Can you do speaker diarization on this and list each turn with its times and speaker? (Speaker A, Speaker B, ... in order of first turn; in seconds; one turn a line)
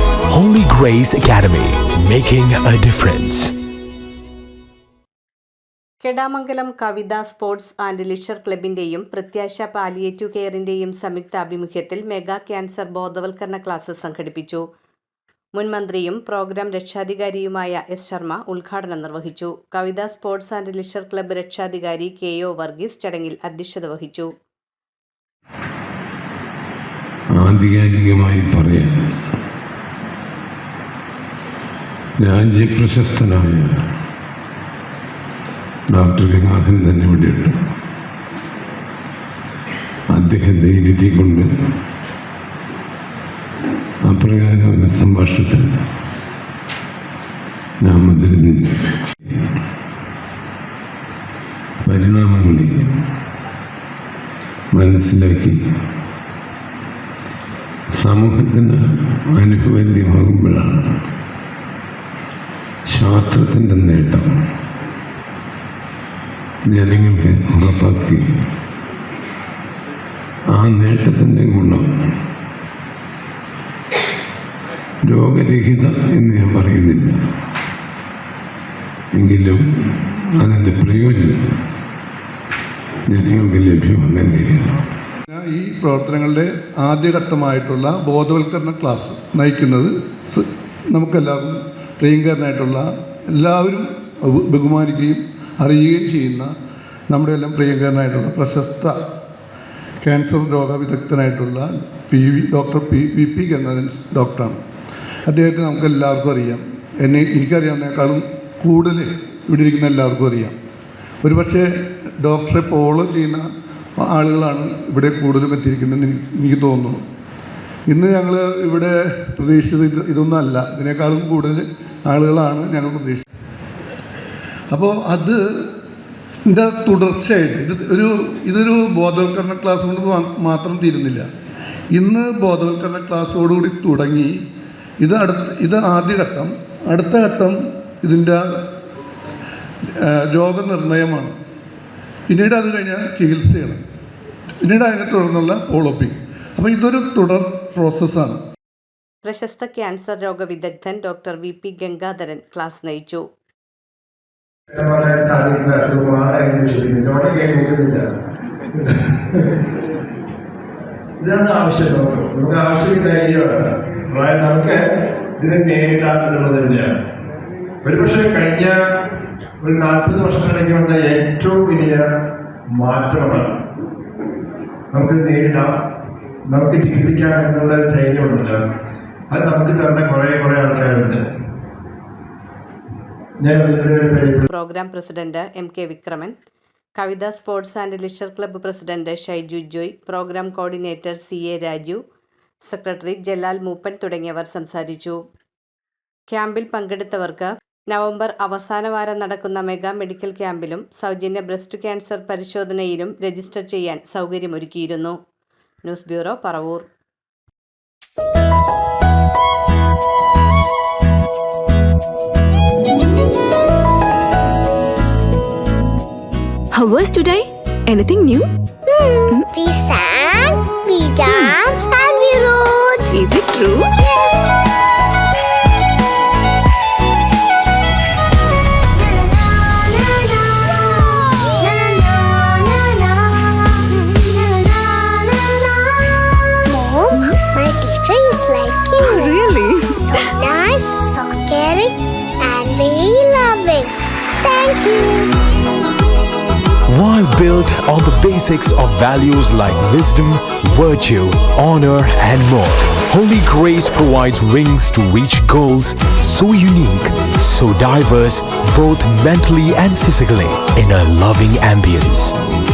Speaker A: 0.3-3.5
Speaker B: 6.0-14.6
Speaker B: 15.5-24.3
Speaker C: 27.4-29.0
Speaker C: 32.2-33.7
Speaker C: 35.9-37.6
Speaker C: 40.1-41.5
Speaker C: 44.0-45.8
Speaker C: 47.8-49.4
Speaker C: 51.8-52.9
Speaker C: 54.7-55.6
Speaker C: 57.9-58.8
Speaker C: 59.4-61.0
Speaker C: 62.9-64.3
Speaker C: 66.7-68.2
Speaker C: 70.5-71.9
Speaker C: 75.0-77.2
Speaker C: 79.1-81.4
Speaker C: 83.1-84.8
Speaker D: 85.3-96.5
Speaker D: 97.1-99.0
Speaker D: 100.0-104.6
Speaker D: 105.3-110.5
Speaker D: 111.2-111.7
Speaker D: 112.2-113.5
Speaker D: 114.0-117.0
Speaker D: 117.9-123.2
Speaker D: 124.7-125.7
Speaker D: 126.5-131.2
Speaker D: 131.9-134.4
Speaker D: 135.0-138.4
Speaker D: 140.0-141.3
Speaker D: 142.3-143.8
Speaker D: 144.6-148.4
Speaker B: 149.2-153.2
Speaker E: 154.7-158.1
Speaker E: 158.7-159.4
Speaker E: 161.2-164.8
Speaker E: 165.4-166.9
Speaker E: 167.8-168.8
Speaker E: 169.6-172.0
Speaker E: 172.8-173.6
Speaker E: 174.9-175.8
Speaker E: 176.5-178.6
Speaker E: 179.3-181.2
Speaker E: 183.4-184.4
Speaker B: 184.5-186.4
Speaker B: 187.0-192.0
Speaker B: 192.6-195.2
Speaker B: 196.3-205.2
Speaker B: 205.8-206.9
Speaker F: 216.8-218.5
Speaker G: 218.9-223.2
Speaker F: 223.1-223.9
Speaker G: 224.0-224.5
Speaker G: 229.7-239.4
Speaker F: 239.0-240.3
Speaker G: 240.0-245.3
Speaker A: 246.9-262.4